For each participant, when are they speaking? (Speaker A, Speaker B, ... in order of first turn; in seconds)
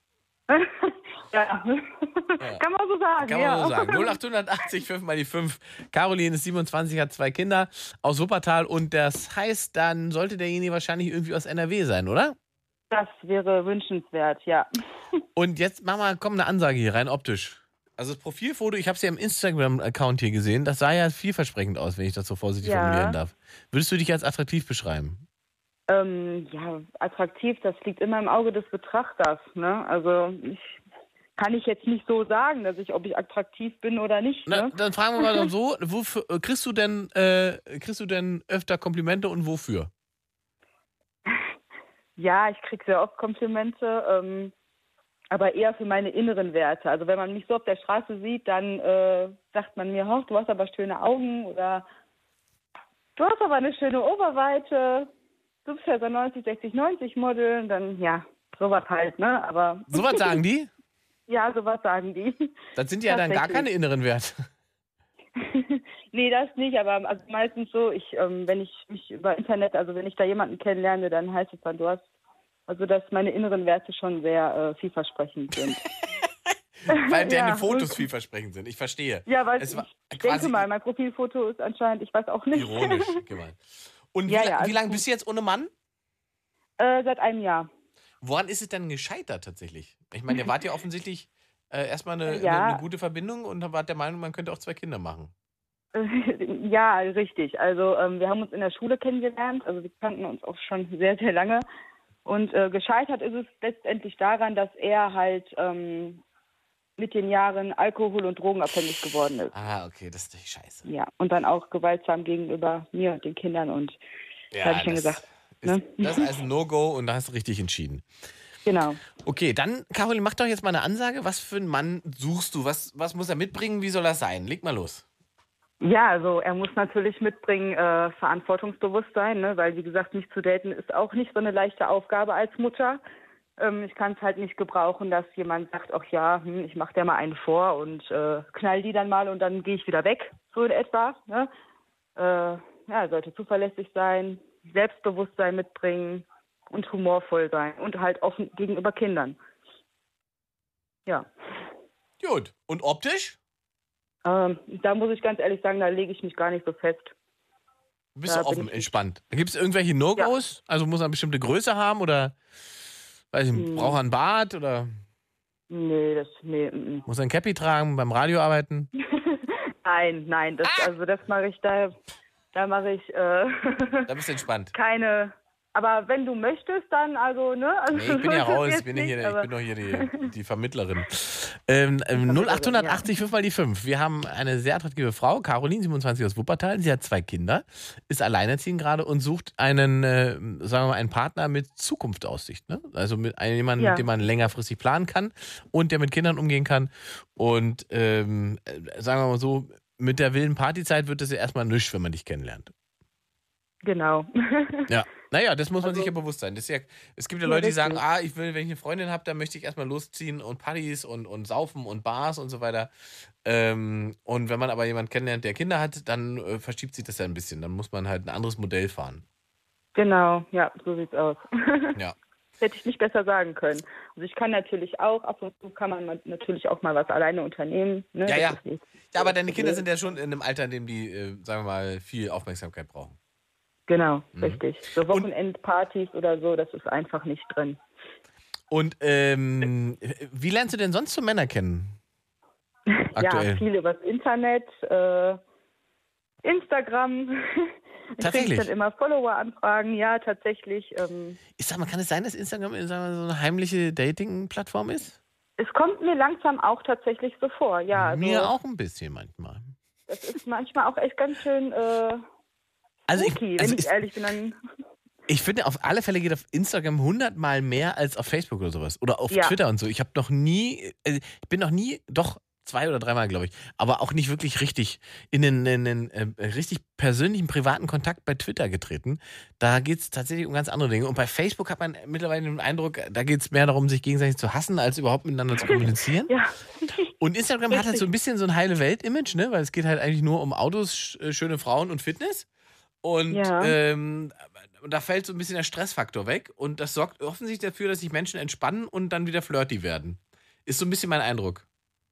Speaker A: 0.5-4.2, 12.9-14.7, 22.6-23.2, 25.9-30.8, 31.4-35.4, 42.2-44.5, 45.3-51.9, 53.2-55.1, 55.6-60.4, 61.3-62.5, 63.1-63.7, 65.4-72.0, 72.7-75.8, 76.9-78.0, 79.3-83.2, 84.3-85.0, 86.8-87.7, 92.3-92.8, 95.9-101.7, 102.2-106.2, 107.0-109.5, 110.9-114.0, 114.6-116.3, 118.7-119.0, 125.8-133.0, 133.6-141.5, 142.2-149.4, 154.2-157.1, 158.3-158.9, 163.5-164.0, 165.7-167.1, 169.3-171.9, 172.5-174.1, 174.7-180.2, 182.2-183.1, 193.8-194.1, 203.8-204.9, 205.8-206.1, 207.4-208.0, 219.9-222.0, 222.6-229.8, 233.9-237.8, 242.9-245.4, 246.4-251.4, 255.6-258.5, 260.1-262.2, 263.1-264.6, 269.3-269.6, 285.6-287.0, 287.7-288.1, 293.3-293.8
Speaker B: 3.2-12.4, 15.4-25.2, 34.5-39.9, 59.9-60.7, 62.8-64.5, 76.9-80.7, 82.5-83.6, 84.1-85.7, 88.2-95.3, 109.5-110.9, 114.5-118.0, 119.2-125.0, 152.2-153.4, 158.2-162.4, 163.3-164.9, 167.1-168.9, 170.6-170.9, 174.1-174.7, 177.9-202.7, 204.9-212.9, 213.4-219.2, 228.3-233.2, 234.3-235.3, 238.7-242.0, 243.2-243.6, 248.2-248.7, 251.6-255.2, 257.9-259.7, 263.1-264.0, 265.3-286.3, 287.2-292.5, 293.0-301.6